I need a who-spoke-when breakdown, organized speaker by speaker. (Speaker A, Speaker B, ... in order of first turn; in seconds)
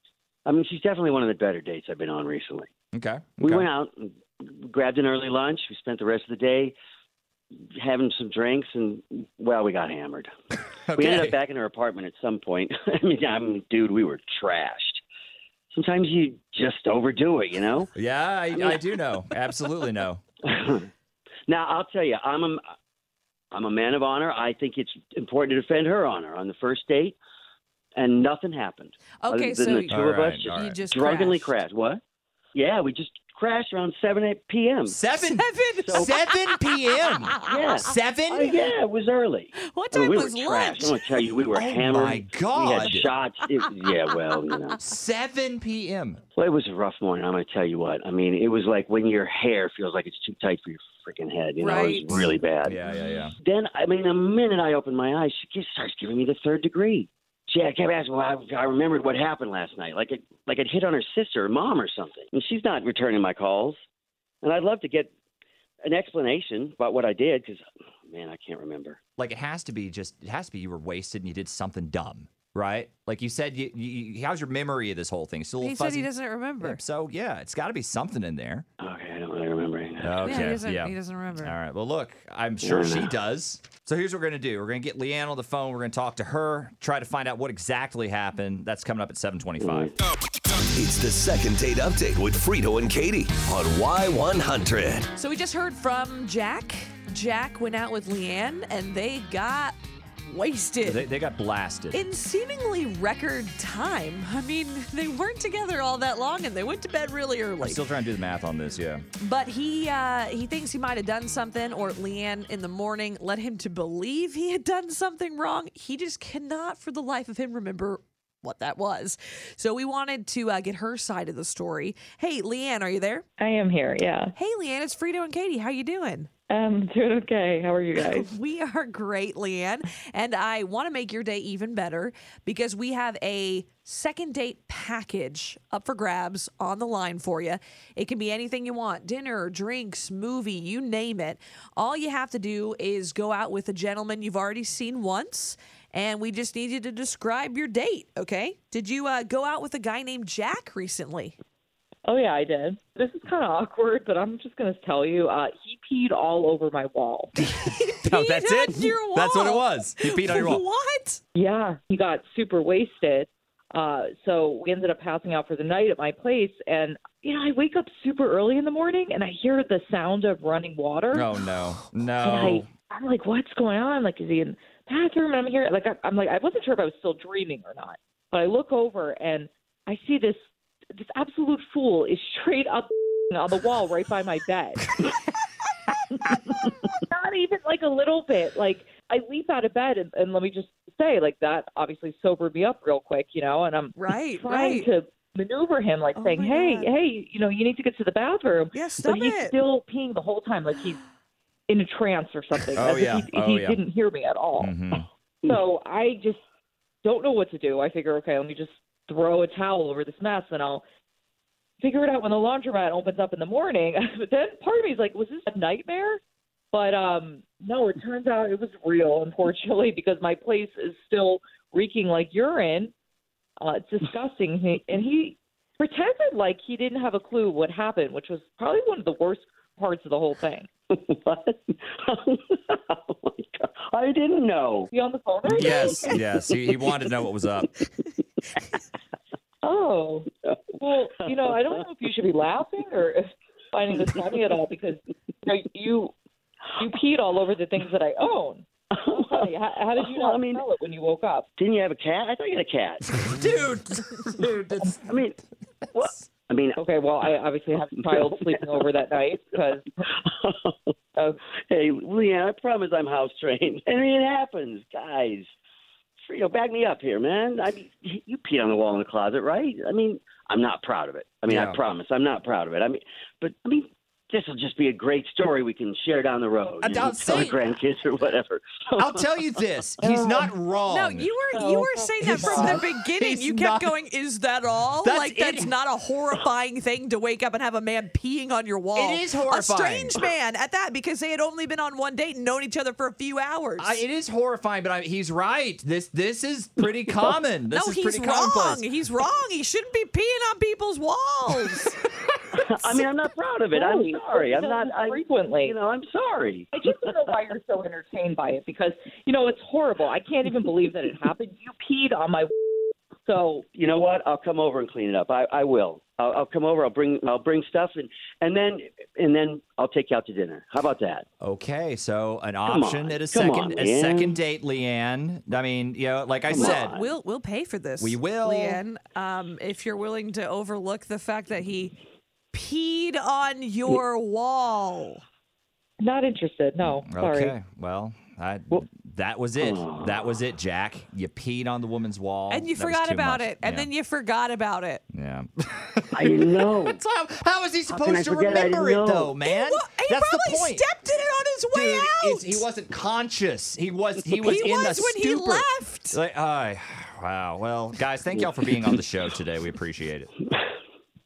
Speaker A: 0.5-2.7, 3.4-6.7, 7.5-10.3, 11.0-15.0, 15.7-17.9, 18.5-18.9, 20.4-20.9, 21.5-22.6, 23.5-27.2, 28.0-32.0, 32.5-35.0, 35.8-36.1, 37.5-44.9, 46.4-52.8, 53.4-63.8, 64.4-65.1, 65.8-69.0, 78.8-80.5, 82.6-83.2, 89.6-89.9, 230.9-234.9, 235.5-237.0, 240.4-240.7, 248.9-250.6, 251.6-253.0, 255.1-255.4, 255.9-256.8, 258.1-258.8, 260.1-260.9, 261.7-265.5, 266.2-280.5, 302.6-307.3, 313.8-321.2, 322.7-324.4, 326.5-327.1, 339.6-340.3, 346.1-347.0, 347.9-349.4, 358.4-359.0
Speaker B: 2.9-3.7, 10.9-11.3, 17.9-20.2, 29.9-30.8, 34.9-38.5, 41.5-43.1, 44.8-46.2, 52.1-53.3, 69.2-76.1, 76.6-78.7, 80.0-89.9, 100.8-102.0, 107.6-109.1, 158.1-160.6, 171.1-172.7, 202.7-203.8, 204.6-205.1, 235.5-237.8, 253.1-255.2, 271.5-271.8, 276.8-277.6, 279.0-281.3, 282.2-283.9, 285.0-285.8, 288.9-290.2, 293.8-298.9, 321.4-326.9, 328.0-328.8, 336.8-343.9, 345.1-350.9, 351.7-360.3
Speaker C: 29.2-31.5, 35.2-37.8, 39.6-41.3, 51.6-52.1, 52.9-53.3, 75.6-76.8, 80.2-81.5, 95.2-99.8, 100.3-101.1, 101.9-107.8, 109.2-123.2, 124.4-126.3, 127.9-151.4, 157.4-161.2, 193.9-194.8, 196.2-196.9, 198.7-199.6, 280.9-294.0, 297.7-302.0, 326.5-331.9, 332.5-335.2, 342.5-345.0, 349.4-352.6, 354.4-356.2
Speaker D: 90.8-95.0
Speaker E: 123.4-124.3, 126.5-128.3, 152.1-157.3, 161.3-171.3, 172.2-180.4, 180.9-184.9, 187.0-201.0, 201.7-204.7, 205.4-206.4, 207.0-210.8, 211.8-216.2, 216.7-222.9, 223.6-230.7, 234.9-236.1, 239.6-240.3, 240.8-246.1, 246.8-251.5, 256.8-260.0, 281.5-282.7, 303.7-305.8, 306.7-312.5, 313.2-313.6, 336.0-337.6